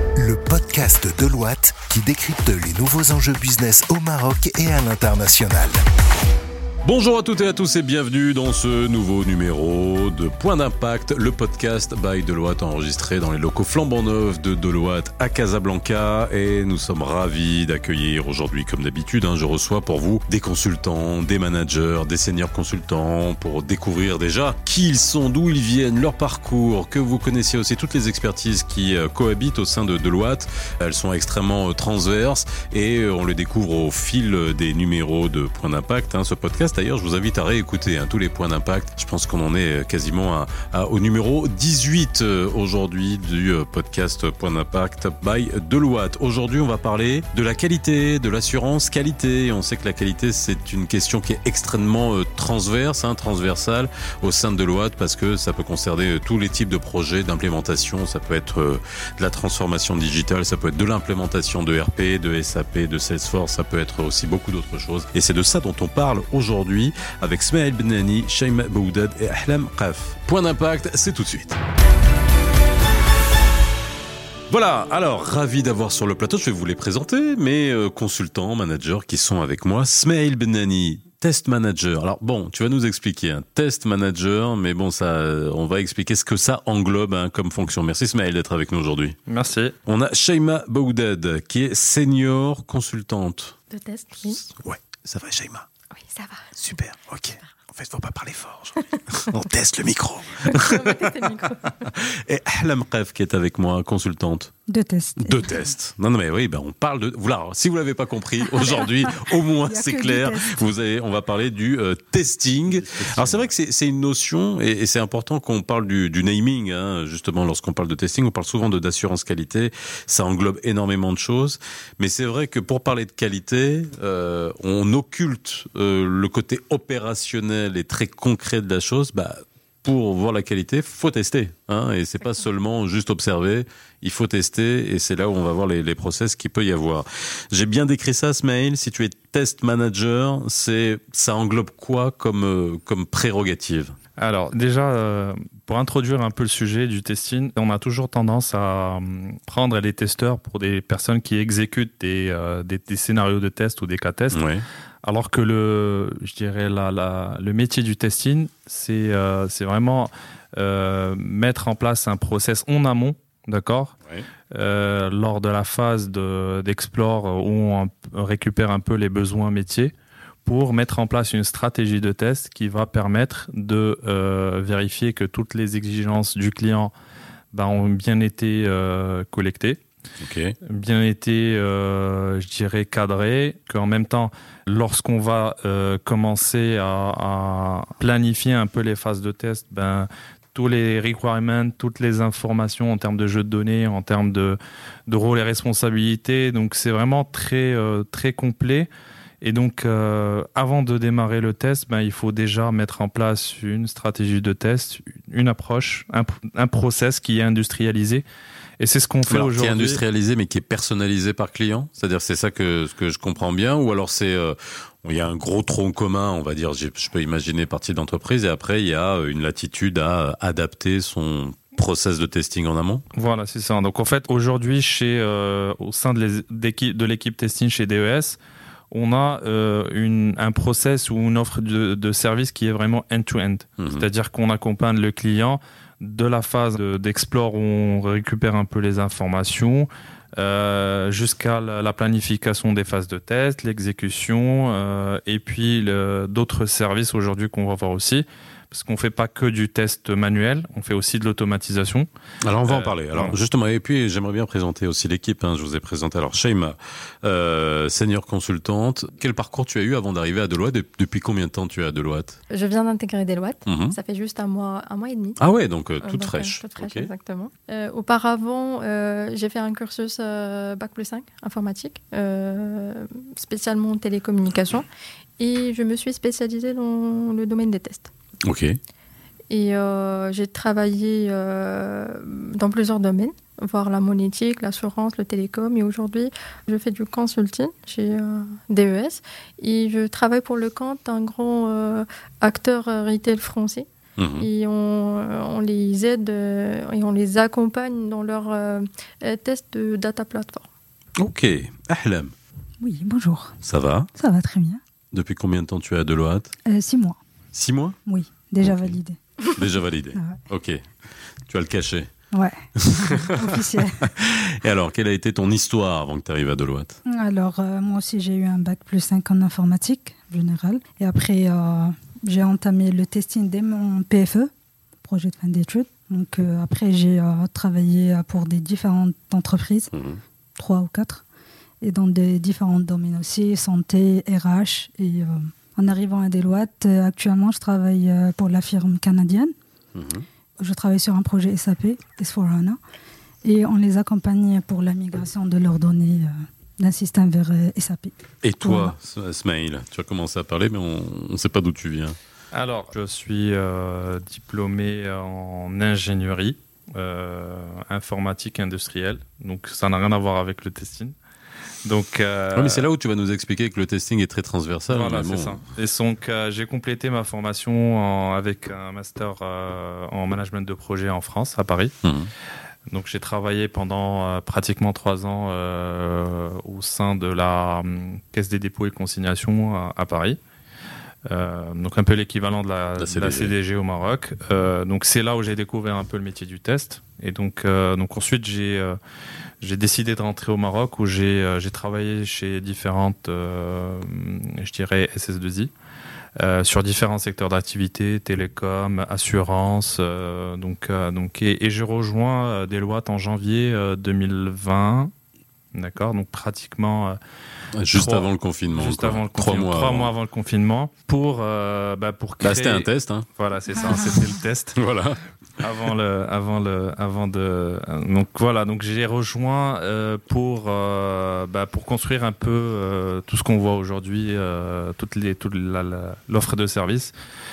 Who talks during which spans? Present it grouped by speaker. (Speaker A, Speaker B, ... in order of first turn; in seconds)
Speaker A: 0.2-5.8
Speaker B: 6.8-71.6, 74.5-89.2, 89.9-93.5, 94.5-95.7, 96.6-101.2, 101.8-104.5, 105.2-144.0, 154.3-154.7, 180.2-180.6, 209.3-223.0, 233.8-234.1, 252.4-262.4, 263.7-264.0, 265.4-267.1, 278.5-278.8, 294.2-294.5, 301.2-302.3, 303.6-304.1, 305.1-306.5, 307.5-308.0, 308.6-310.8, 311.5-312.1, 312.9-313.5, 314.1-317.0, 329.9-330.2, 339.9-340.3, 348.4-352.1, 362.5-365.6, 383.0-383.5, 407.8-410.1, 412.4-413.2, 414.8-415.2
Speaker C: 89.3-89.8, 144.2-154.4, 155.0-163.9, 164.5-169.9, 170.4-176.9, 177.5-179.8, 180.6-198.9, 199.4-208.2, 208.8-210.0, 223.1-228.4, 228.9-252.1, 252.7-253.4, 352.5-361.2, 361.9-362.9, 364.9-371.9, 372.9-380.4, 381.3-389.0, 389.6-395.7, 396.4-405.1, 405.7-407.2, 407.9-414.8, 415.6-427.1
Speaker D: 93.7-94.4, 95.9-96.5, 100.5-101.9, 262.5-265.4, 266.0-274.9, 275.4-278.1, 279.5-300.6
Speaker E: 104.7-105.6, 108.8-110.7, 302.8-303.6, 304.1-304.8, 306.6-307.2, 308.1-309.2, 310.1-310.4, 312.3-314.1, 317.1-324.5, 325.0-329.9, 330.6-331.2, 331.8-339.6, 340.6-342.8, 343.4-349.0, 413.7-414.1